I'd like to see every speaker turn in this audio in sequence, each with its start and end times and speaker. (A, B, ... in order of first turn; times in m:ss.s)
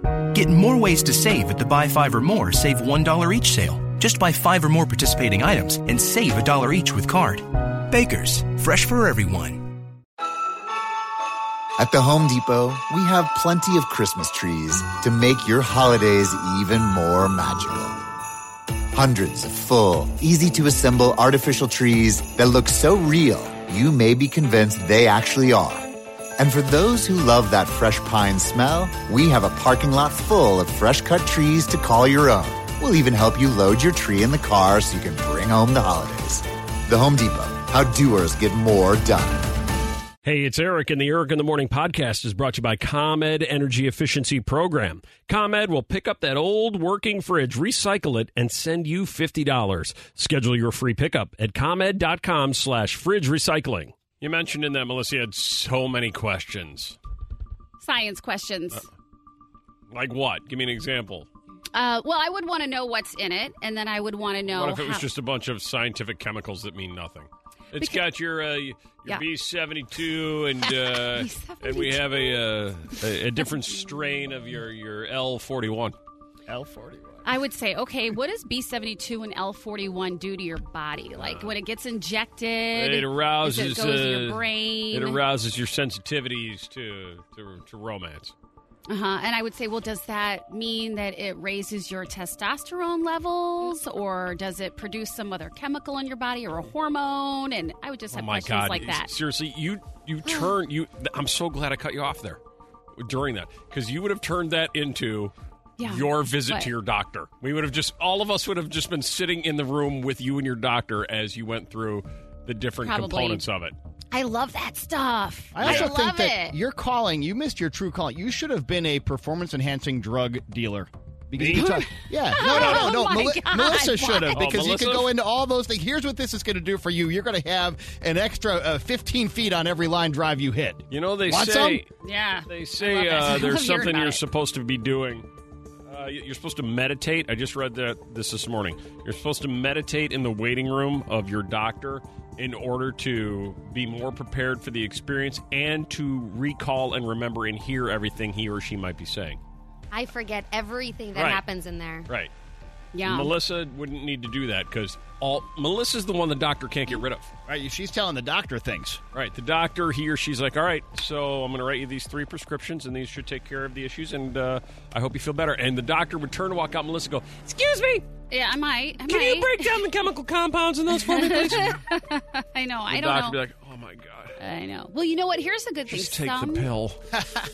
0:00.3-0:09.6 A
0:11.8-0:18.0 B
0:18.9-0:39.5 B
0:40.2-0:57.0 C
0:57.8-0:58.8 D
0:59.9-1:01.3 C
1:01.7-1:05.1 D
1:04.4-1:16.0 C
1:07.8-1:08.0 D
1:10.6-1:13.0 D
1:16.5-1:17.2 E
1:17.2-1:25.2 D
1:21.2-1:21.5 C
1:22.7-1:28.3 C
1:28.9-1:39.1 D
1:38.1-1:42.4 C
1:40.2-1:40.5 D
1:43.0-1:53.7 C
1:45.8-1:46.7 D
1:52.8-1:53.4 D
1:54.1-1:56.6 D
1:55.5-2:11.8 E
1:55.6-1:55.9 C
2:01.4-2:01.8 C
2:01.5-2:04.5 D
2:02.4-2:02.9 C
2:04.3-2:05.1 C
2:10.9-2:11.9 C
2:12.0-2:14.2 D
2:12.5-2:15.3 C
2:15.9-2:29.4 C
2:29.9-2:32.1 F
2:31.1-2:31.4 C
2:32.9-2:33.3 D
2:33.0-2:37.3 C
2:37.5-2:39.0 E
2:39.1-2:48.1 C
2:48.3-2:49.8 D
2:49.1-2:51.8 C
2:50.9-2:53.4 D
2:52.9-2:54.4 C
2:54.4-2:56.7 D
2:55.9-2:57.0 C